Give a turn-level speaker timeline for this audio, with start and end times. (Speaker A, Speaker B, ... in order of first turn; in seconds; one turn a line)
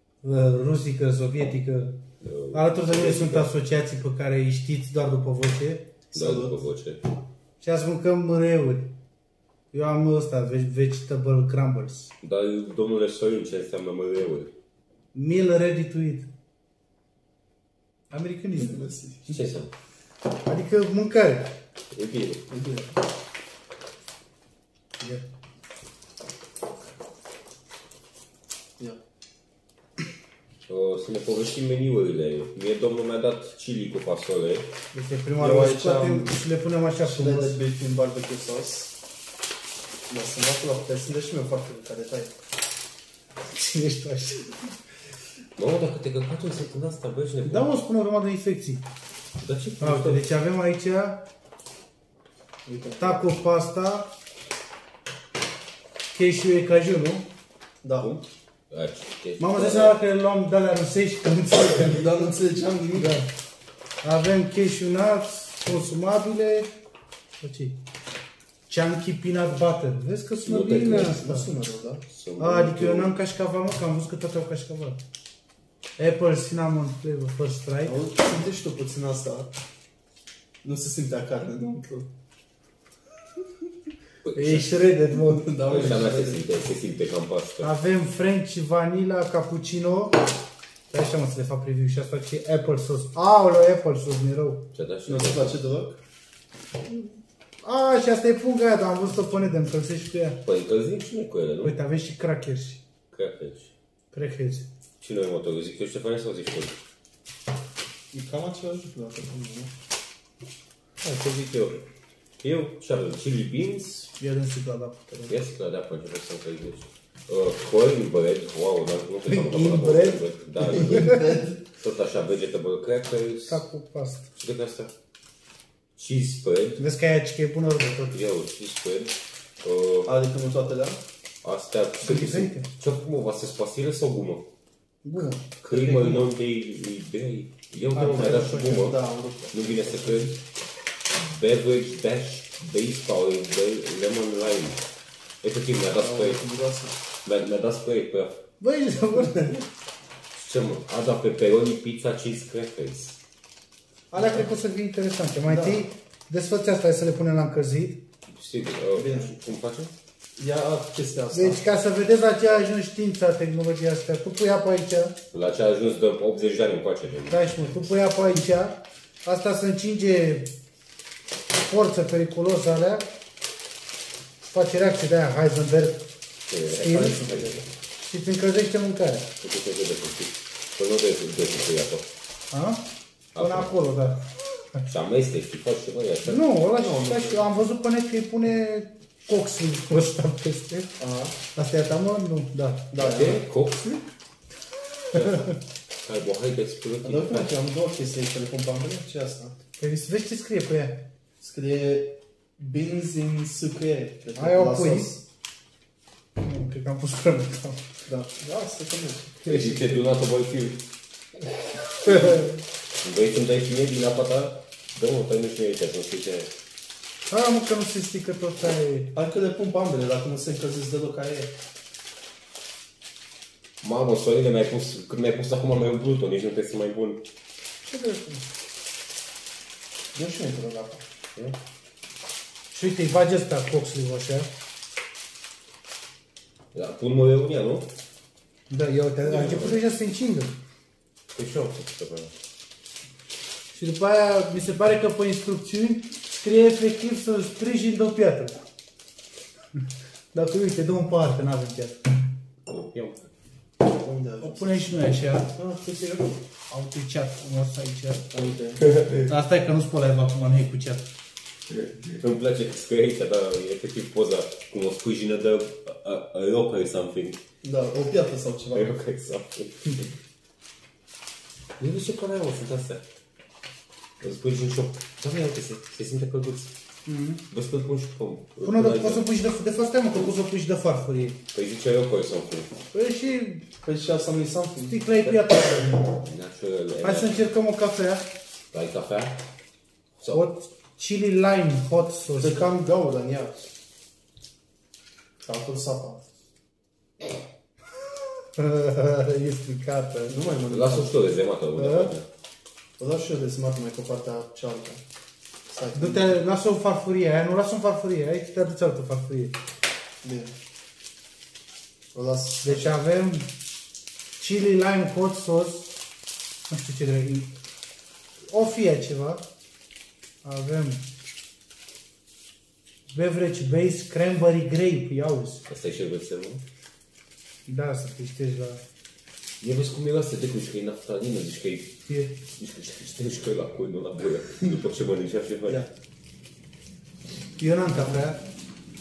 Speaker A: 0.2-1.9
Speaker B: 2.2-3.5
Speaker A: 2.5-5.9
Speaker C: 6.1-6.6
Speaker B: 6.1-7.0
Speaker A: 7.6-8.9
Speaker A: 9.7-12.1
Speaker B: 12.2-14.5
Speaker A: 15.1-16.3
Speaker A: 18.1-19.3
Speaker C: 18.6-19.2
Speaker B: 19.3-19.7
Speaker A: 20.4-21.5
Speaker B: 21.9-22.4
Speaker C: 22.5-22.9
Speaker B: 30.7-34.7
Speaker A: 34.9-37.6
Speaker C: 35.4-36.4
Speaker C: 37.0-38.9
Speaker C: 40.1-42.3
Speaker A: 43.4-44.6
Speaker B: 45.6-47.7
Speaker A: 47.4-48.8
Speaker B: 49.4-50.2
Speaker A: 49.8-51.2
Speaker C: 52.6-53.2
Speaker A: 53.0-54.1
Speaker A: 56.1-57.2
Speaker C: 57.8-58.1
Speaker B: 58.0-60.0
Speaker A: 59.4-62.2
Speaker C: 61.7-63.1
Speaker A: 62.9-63.3
Speaker A: 64.0-66.7
Speaker A: 67.4-67.8
Speaker A: 68.7-71.5
Speaker B: 70.5-71.2
Speaker C: 70.9-72.0
Speaker B: 72.0-73.1
Speaker A: 72.4-75.0
Speaker A: 76.0-78.0
Speaker C: 77.8-79.5
Speaker C: 80.6-82.1
Speaker B: 84.2-84.9
Speaker A: 84.3-85.5
Speaker C: 85.1-86.4
Speaker B: 85.6-87.7
Speaker A: 87.6-90.2
Speaker A: 90.9-94.6
Speaker B: 94.7-95.5
Speaker C: 95.1-96.0
Speaker A: 96.9-100.4
Speaker B: 100.4-101.7
Speaker A: 101.6-102.8
Speaker B: 103.1-103.7
Speaker A: 104.1-104.7
Speaker B: 105.0-106.8
Speaker C: 108.1-109.7
Speaker B: 111.0-111.8
Speaker B: 112.4-114.1
Speaker A: 114.2-115.1
Speaker B: 115.2-123.6
Speaker A: 119.2-121.2
Speaker C: 120.7-121.6
Speaker A: 123.5-124.3
Speaker B: 124.3-124.9
Speaker B: 126.0-126.8
Speaker A: 126.8-128.2
Speaker B: 128.1-130.2
Speaker C: 130.0-131.0
Speaker B: 131.4-134.4
Speaker A: 132.0-132.7
Speaker A: 135.0-136.1
Speaker B: 135.4-139.0
Speaker C: 135.7-136.2
Speaker A: 137.9-138.9
Speaker C: 138.0-140.3
Speaker B: 139.5-140.4
Speaker B: 141.2-144.8
Speaker B: 145.4-146.4
Speaker C: 145.9-147.0
Speaker B: 147.2-148.4
Speaker A: 148.6-149.5
Speaker C: 149.2-149.5
Speaker B: 150.3-153.2
Speaker A: 154.1-158.0
Speaker C: 155.4-155.8
Speaker B: 158.3-159.9
Speaker C: 158.9-159.3
Speaker C: 160.4-161.6
Speaker A: 161.3-165.2
Speaker B: 165.3-167.5
Speaker A: 167.3-170.5
Speaker A: 171.6-173.1
Speaker A: 174.4-176.1
Speaker B: 176.5-177.7
Speaker C: 176.7-177.6
Speaker A: 176.8-177.2
Speaker A: 178.0-179.3
Speaker B: 179.4-182.1
Speaker A: 182.5-182.8
Speaker B: 183.3-183.7
Speaker A: 183.4-184.2
Speaker B: 184.9-186.4
Speaker A: 186.2-190.9
Speaker C: 186.8-187.5
Speaker C: 191.0-191.4
Speaker A: 191.5-192.9
Speaker C: 192.9-193.4
Speaker B: 192.9-194.0
Speaker B: 195.1-197.5
Speaker A: 195.1-195.4
Speaker C: 197.0-199.6
Speaker A: 199.8-201.1
Speaker C: 201.4-205.2
Speaker A: 204.3-205.1
Speaker A: 206.4-207.9
Speaker C: 208.1-209.4
Speaker A: 209.4-210.1
Speaker B: 209.4-210.8
Speaker A: 212.1-212.5
Speaker B: 213.0-216.5
Speaker A: 217.3-219.1
Speaker C: 219.1-221.5
Speaker B: 223.8-227.2
Speaker A: 227.8-228.4
Speaker C: 230.1-231.0
Speaker A: 232.7-234.5
Speaker B: 236.7-237.9
Speaker A: 238.7-240.6
Speaker B: 239.2-239.8
Speaker B: 241.3-242.3
Speaker A: 243.7-248.6
Speaker A: 250.3-252.0
Speaker B: 252.7-253.3
Speaker C: 253.8-254.9
Speaker A: 254.4-255.5
Speaker A: 256.7-258.3
Speaker C: 258.3-258.9
Speaker B: 258.8-259.3
Speaker A: 259.1-261.1
Speaker B: 261.7-267.4
Speaker C: 267.6-268.9
Speaker B: 268.7-270.1
Speaker B: 271.8-273.0
Speaker B: 274.2-276.7
Speaker A: 277.1-277.4
Speaker B: 277.5-279.2
Speaker A: 278.6-281.4
Speaker B: 281.5-282.7
Speaker A: 282.9-283.6
Speaker C: 283.8-285.0
Speaker A: 284.9-286.2
Speaker B: 285.2-285.5
Speaker B: 286.0-287.4
Speaker A: 287.0-288.3
Speaker B: 288.7-289.4
Speaker B: 290.2-290.4
Speaker A: 290.3-292.8
Speaker C: 292.4-293.5
Speaker C: 295.4-296.2
Speaker A: 298.6-300.4
Speaker C: 300.3-301.2
Speaker B: 300.7-302.2
Speaker A: 301.8-302.1
Speaker C: 303.0-305.0
Speaker C: 305.7-306.4
Speaker A: 305.9-309.5
Speaker C: 310.2-310.5
Speaker C: 312.1-313.0
Speaker A: 312.6-313.5
Speaker A: 314.4-316.0
Speaker A: 316.7-317.5
Speaker A: 318.5-319.4
Speaker A: 320.4-321.0
Speaker A: 323.1-325.6
Speaker B: 325.7-326.6
Speaker A: 327.7-328.8
Speaker B: 329.6-331.9
Speaker A: 332.1-332.3
Speaker B: 332.6-335.8
Speaker A: 337.6-338.4